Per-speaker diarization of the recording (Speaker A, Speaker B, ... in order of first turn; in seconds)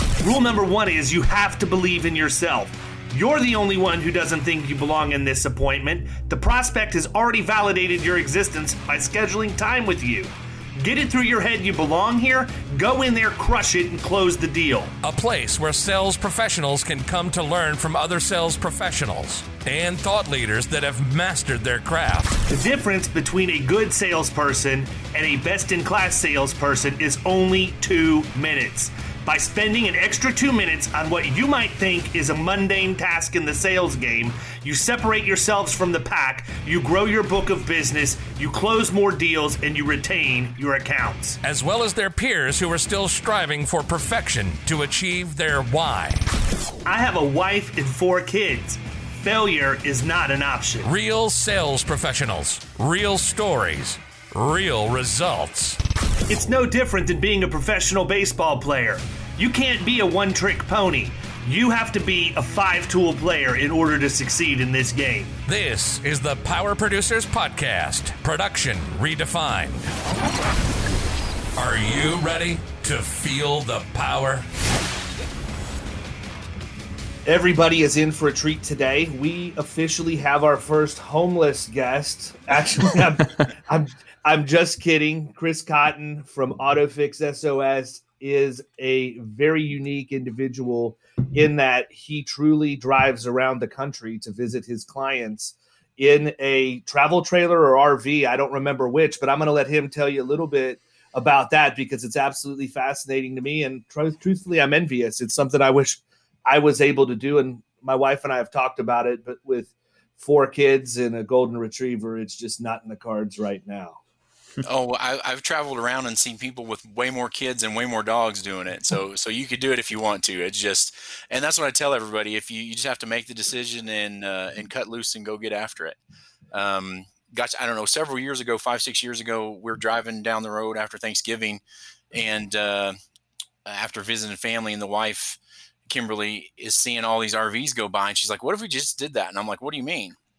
Speaker A: 0.2-14.9, 22.5-41.4, 46.9-50.9, 56.3-65.3, 77.2-114.0
Speaker B: 15.0-22.4, 41.4-46.2, 50.8-55.8, 65.5-69.8, 71.5-74.4
Speaker C: 114.6-126.0, 126.5-131.6, 132.1-132.9, 133.6-140.2